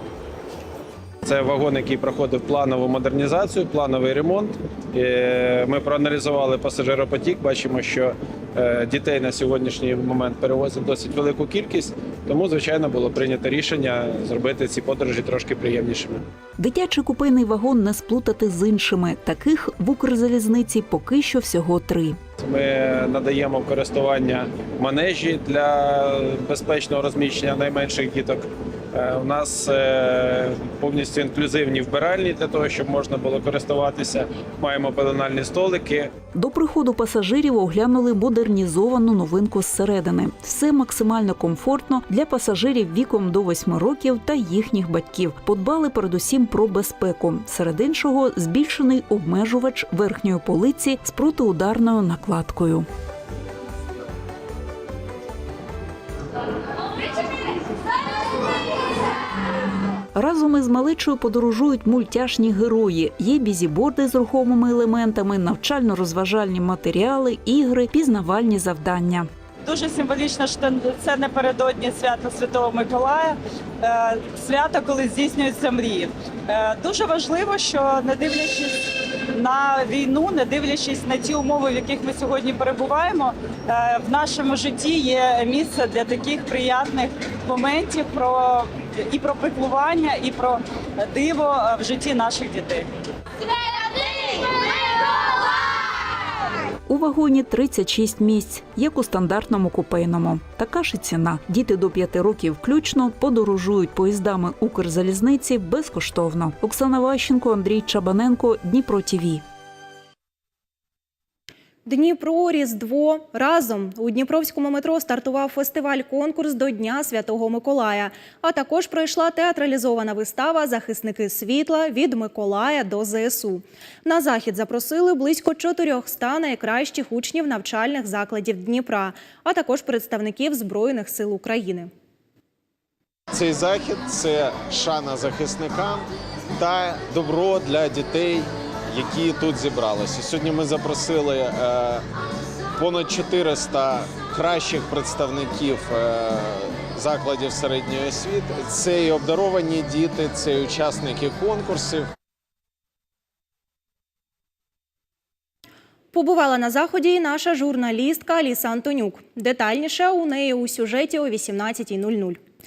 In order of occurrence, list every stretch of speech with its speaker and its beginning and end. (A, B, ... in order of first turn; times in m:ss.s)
0:01.2-0:16.2 A
0:16.6-0:22.2 B
0:22.4-0:36.1 A
0:36.3-0:52.8 B
1:00.1-1:09.3 B
1:09.6-1:18.8 C
1:19.3-1:32.8 C
1:36.9-1:49.4 B
1:51.8-2:11.9 D
2:13.3-2:22.0 E
2:22.8-2:32.1 E
2:36.1-2:42.4 D